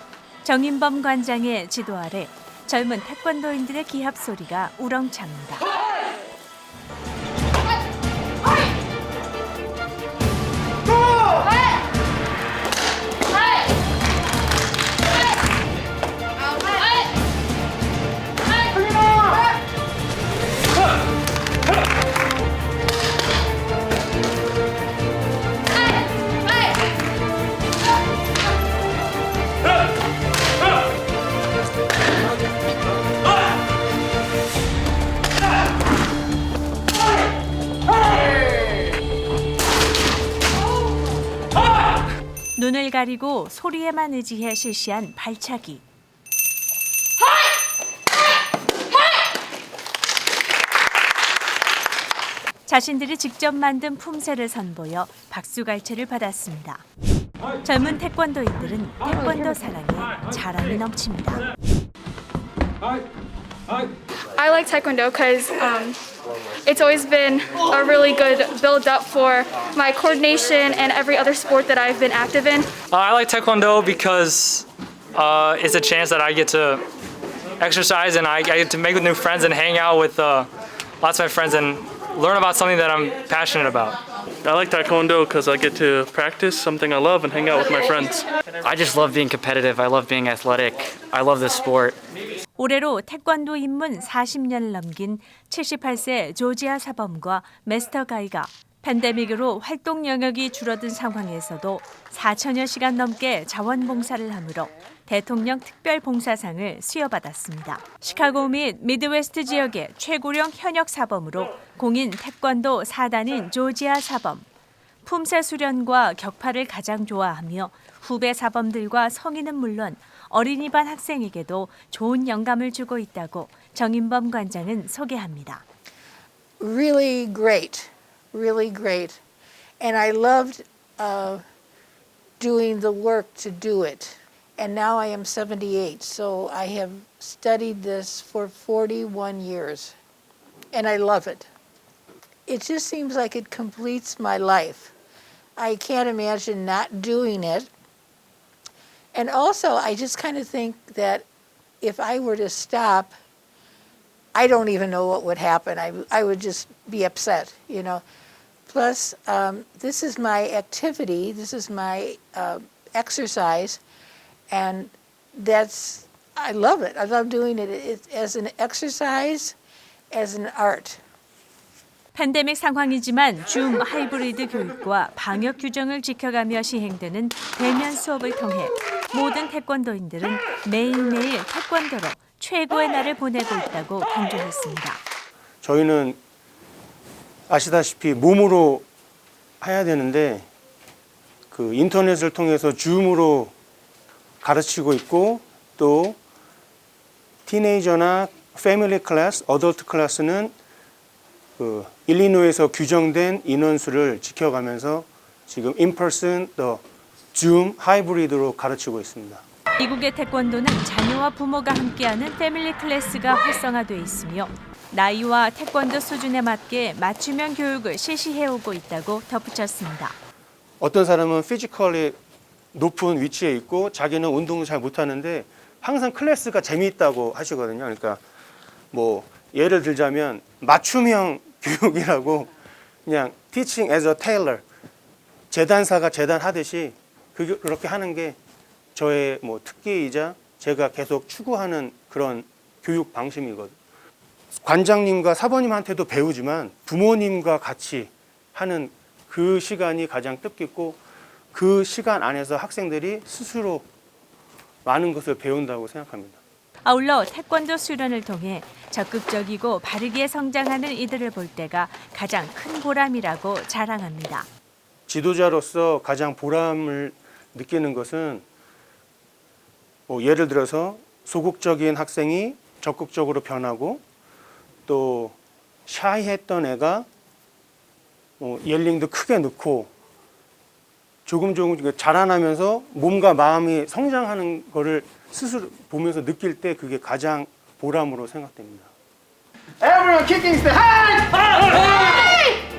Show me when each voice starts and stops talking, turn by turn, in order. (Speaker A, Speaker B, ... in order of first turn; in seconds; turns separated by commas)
Speaker A: 0.4-5.7, Speaker A: 42.6-45.8, Speaker A: 52.7-56.8, Speaker A: 57.6-61.4, Speaker B: 64.4-66.0, Speaker B: 66.7-72.8, Speaker C: 72.9-76.8, Speaker C: 77.6-80.5, Speaker C: 81.0-84.0, Speaker D: 84.5-88.2, Speaker E: 88.6-92.0, Speaker A: 92.6-114.5, Speaker A: 115.0-125.6, Speaker F: 126.6-129.2, Speaker F: 129.8-131.4, Speaker F: 132.4-139.9, Speaker F: 140.7-141.5, Speaker F: 142.5-144.9, Speaker F: 145.6-147.7, Speaker F: 149.1-151.2, Speaker F: 151.8-153.1, Speaker F: 154.3-158.0, Speaker F: 158.7-163.8, Speaker F: 164.5-169.6, Speaker F: 170.1-171.0, Speaker A: 172.1-185.0, Speaker G: 185.6-186.2, Speaker G: 187.5-188.8, Speaker G: 189.6-190.5, Speaker G: 191.5-193.5, Speaker G: 194.4-196.2, Speaker G: 197.5-200.5, Speaker G: 201.6-206.8, Speaker G: 207.3-209.4, Speaker A: 209.8-220.2, Speaker G: 220.8-222.2, Speaker G: 222.7-228.2, Speaker G: 228.9-232.5, Speaker G: 233.1-234.6, Speaker G: 235.5-238.4, Speaker G: 238.9-243.8, Speaker G: 244.6-251.0, Speaker G: 251.5-253.9, Speaker G: 254.8-256.4, Speaker A: 256.9-264.5, Speaker G: 265.1-268.4, Speaker G: 270.1-274.0, Speaker G: 274.9-275.4, Speaker G: 275.9-277.1, Speaker G: 278.4-279.9, Speaker G: 281.3-288.9, Speaker H: 289.8-292.4